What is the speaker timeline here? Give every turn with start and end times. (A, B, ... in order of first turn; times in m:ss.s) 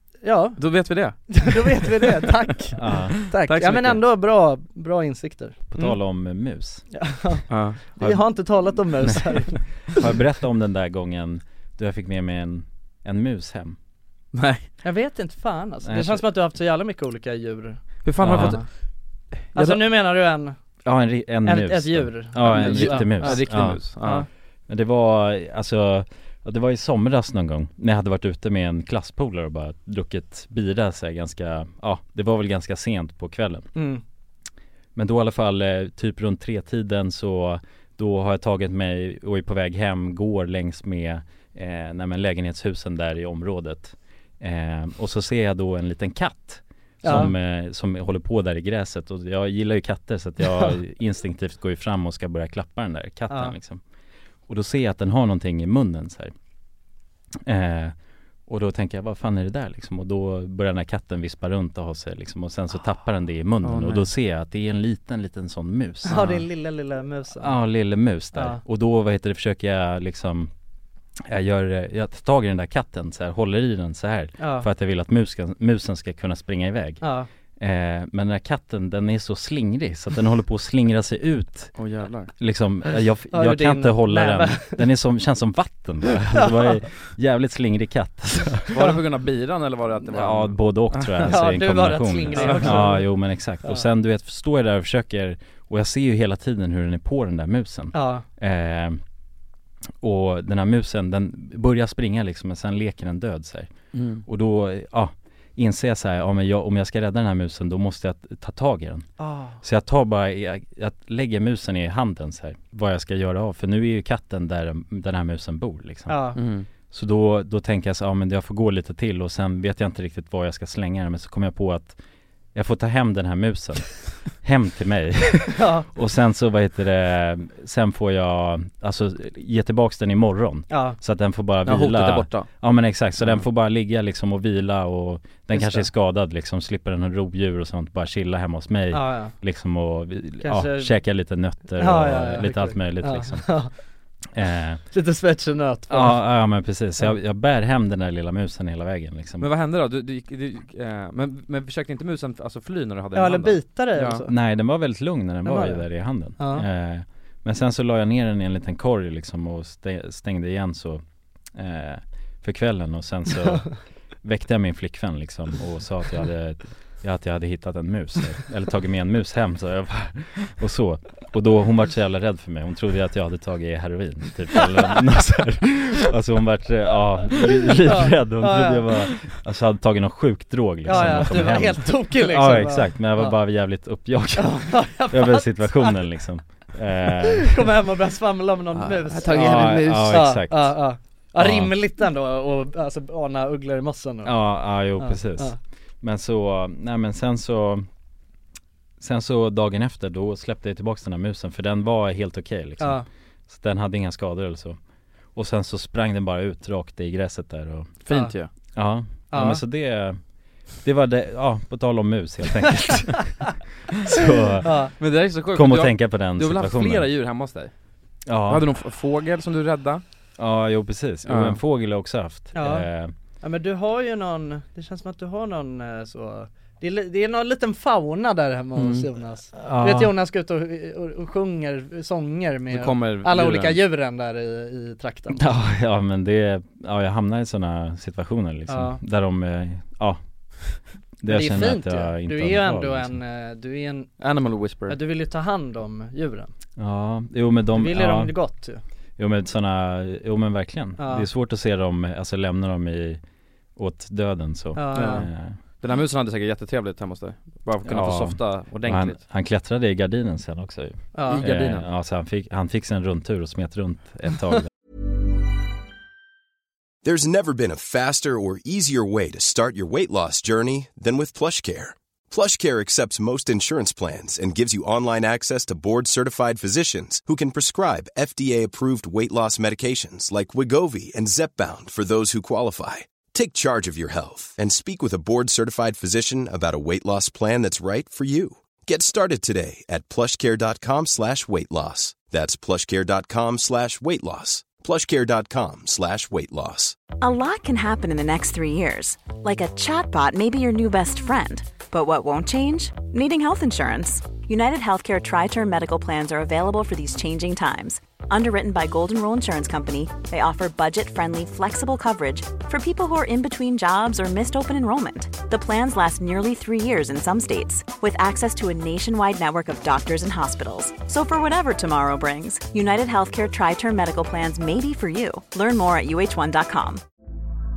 0:00.2-0:00.6 A
0:00.6-0:01.8 B
0:01.3-0:06.0 A
0:02.8-0:03.3 C
0:02.8-0:04.0 B
0:05.7-0:06.8 C
0:06.9-0:09.7 A
0:07.5-0:07.8 B
0:08.0-0:13.8 C
0:14.3-0:14.7 B
0:14.8-0:18.6 A
0:15.8-0:16.2 C
0:18.0-0:18.7 B
0:18.2-0:18.6 C
0:19.5-0:19.8 B
0:19.5-0:20.6 A
0:20.8-0:24.0 C
0:21.4-0:24.3 A
0:22.4-0:24.2 B
0:24.7-0:33.7 C
0:33.7-0:34.0 A
0:34.9-0:53.8 C
0:47.0-0:47.3 A
0:53.3-0:53.6 A
0:54.5-0:56.3 C
0:57.4-0:57.9 C
0:58.5-1:06.4 C
1:03.6-1:04.1 B
1:06.0-1:07.5 A
1:07.4-1:10.5 C
1:08.3-1:08.6 A
1:11.3-1:17.0 C
1:14.4-1:14.7 A
1:17.0-1:17.3 A
1:17.6-1:21.7 C
1:21.8-1:22.3 B
1:22.4-1:28.8 C
1:23.3-1:24.8 A
1:28.7-1:31.3 B
1:30.1-1:39.0 C
1:31.2-1:33.8 A
1:32.3-1:32.9 B
1:37.9-1:38.2 A
1:40.0-1:43.7 C
1:43.9-1:44.2 B
1:44.2-1:49.0 C
1:49.2-1:49.6 A
1:49.6-1:56.3 C
1:56.1-1:56.4 A
1:56.3-1:56.7 B
1:56.8-2:02.0 C
2:02.5-2:23.6 C
2:05.6-2:05.9 A
2:10.7-2:11.0 A
2:11.6-2:12.5 B
2:13.2-2:13.4 B
2:15.5-2:15.8 A
2:18.9-2:19.4 A
2:20.4-2:21.0 A
2:21.8-2:23.7 A
2:24.3-2:24.8 C
2:24.9-2:26.2 A
2:25.9-2:29.5 C
2:29.4-2:34.2 B
2:33.1-2:34.3 A
2:34.3-2:41.0 C
2:35.4-2:35.8 A
2:36.4-2:36.6 A
2:41.5-2:43.7 C
2:44.2-3:07.7 C
2:57.8-2:59.0 A
3:00.9-3:03.4 A
3:00.9-3:01.3 B
3:04.4-3:06.0 A
3:07.3-3:14.4 A
3:08.7-3:10.3 B
3:09.3-3:10.8 C
3:11.4-3:11.7 C
3:14.2-3:17.8 C
3:15.0-3:15.6 A
3:19.0-3:24.8 C
3:22.8-3:23.0 A
3:25.3-3:28.0 C
3:28.0-3:28.5 B
3:28.7-3:30.2 C
3:29.3-3:29.6 A
3:30.8-3:33.4 C
3:33.9-3:34.9 C
3:34.6-3:34.9 A
3:35.0-3:37.7 B
3:35.5-3:37.1 C
3:38.3-3:38.6 C
3:38.5-3:40.0 B
3:40.4-3:43.1 C
3:41.2-3:41.6 B
3:42.5-3:42.8 A
3:43.4-3:55.4 A
3:48.8-3:49.1 B
3:49.5-3:50.1 C
3:52.7-3:53.8 B
3:55.3-4:00.2 C
3:58.7-3:59.0 A
4:01.2-4:03.2 C
4:01.3-4:04.1 A
4:04.2-4:05.0 B
4:04.9-4:06.5 A
4:06.8-4:08.3 C
4:07.7-4:08.8 A
4:09.2-4:13.2 C
4:11.0-4:11.3 A
4:13.8-4:15.6 C
4:14.7-4:15.2 A
4:14.9-4:15.3 B
4:15.8-4:19.2 B
4:17.8-4:24.7 C
4:21.1-4:21.4 A
4:21.3-4:21.9 B
4:27.0-4:57.0 D
4:57.2-5:27.0 E